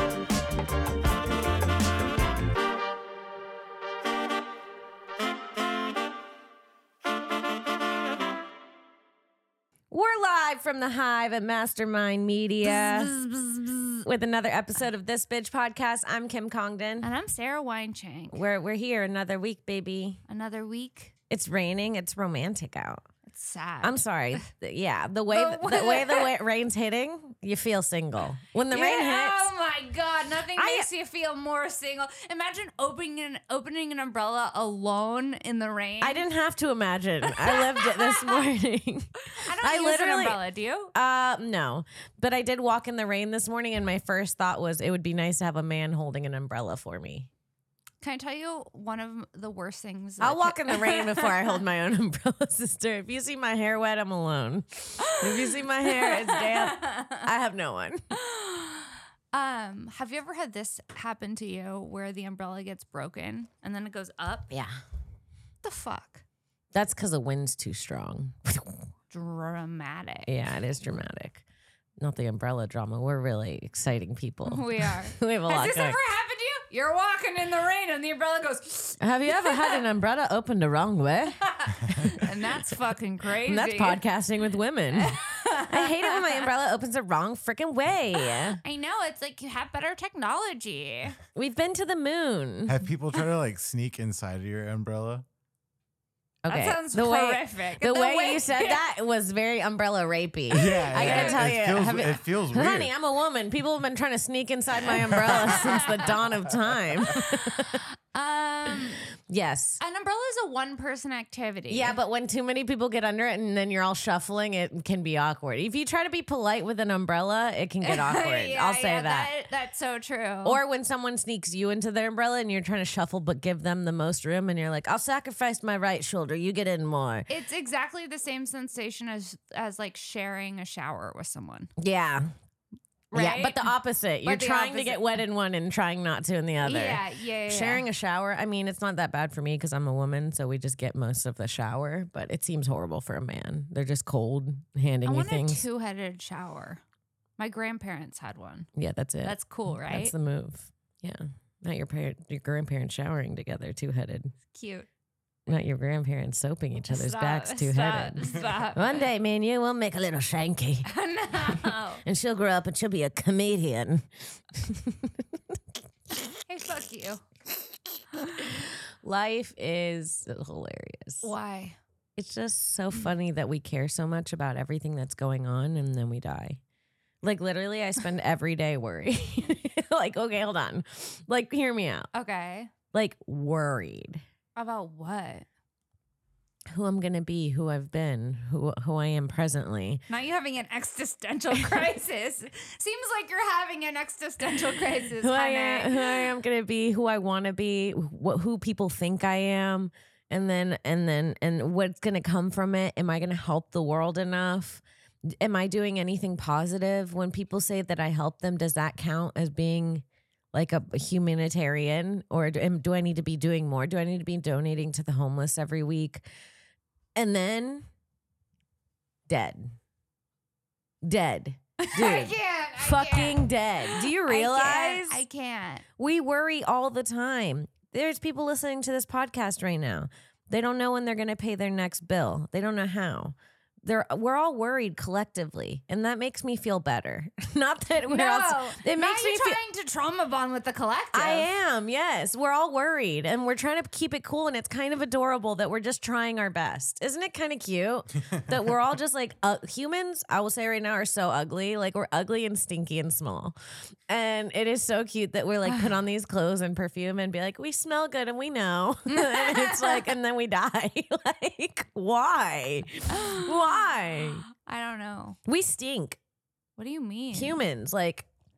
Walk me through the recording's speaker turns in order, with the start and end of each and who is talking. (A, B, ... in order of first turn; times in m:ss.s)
0:09.9-0:17.1 A
0:12.8-0:13.4 B
0:17.0-0:18.4 B
0:18.3-0:20.2 A
0:20.3-0:21.2 B
0:21.3-0:23.1 A
0:23.3-0:24.4 B
0:23.8-0:29.5 A
0:25.3-0:26.3 B
0:28.7-0:36.2 B
0:30.6-0:30.9 A
0:36.0-0:40.4 A
0:37.3-0:38.4 B
0:39.2-0:40.9 B
0:40.9-0:47.3 A
0:48.0-0:51.6 B
0:50.2-0:58.0 A
0:55.0-0:57.3 B
0:58.1-1:04.5 B
1:04.5-1:04.8 A
1:05.6-1:06.2 B
1:06.7-1:08.8 A
1:09.1-1:10.3 B
1:10.3-1:11.4 A
1:12.0-1:16.0 A
1:14.4-1:19.8 B
1:19.0-1:22.2 A
1:21.5-1:24.0 B
1:23.4-1:28.6 A
1:24.9-1:26.5 B
1:28.2-1:31.2 B
1:31.4-1:32.8 A
1:32.7-1:35.2 C
1:36.5-1:47.8 A
1:36.5-1:38.8 B
1:40.5-1:42.9 C
1:40.5-1:41.5 B
1:45.0-1:45.6 C
1:45.6-1:46.1 B
1:47.1-1:49.1 B
1:49.2-1:49.8 A
1:49.8-1:52.0 B
1:51.7-1:59.3 A
1:57.8-2:00.6 B
2:00.4-2:07.3 A
2:07.3-2:11.7 B
2:11.8-2:12.3 A
2:13.1-2:15.1 B
2:13.1-2:25.6 A
2:16.6-2:17.9 B
2:25.0-2:26.8 B
2:27.4-2:28.7 B
2:28.8-2:34.3 A
2:29.2-2:30.2 B
2:34.5-2:34.9 B
2:35.5-2:40.9 A
2:36.9-2:39.0 B
2:40.8-2:42.0 B
2:41.4-2:45.6 A
2:46.5-2:47.2 B
2:48.2-2:48.5 B
2:48.4-2:51.3 A
2:51.2-2:51.8 B
2:52.2-2:56.6 A
2:57.2-3:02.1 A
3:02.1-3:02.7 B
3:02.9-3:04.2 A
3:04.6-3:05.5 B
3:06.7-3:10.0 A
3:10.1-3:16.3 B
3:15.2-3:36.2 A
3:37.2-3:37.9 A
3:39.3-3:39.7 A
3:41.0-3:45.2 A
3:41.8-3:45.8 B
3:46.0-3:59.6 A
3:58.1-4:01.5 B
4:01.1-4:13.6 A
4:14.1-4:24.4 A
4:19.1-4:20.1 B
4:23.1-4:25.4 B
4:25.5-4:26.2 A
4:26.8-4:27.6 B
4:27.3-4:28.3 A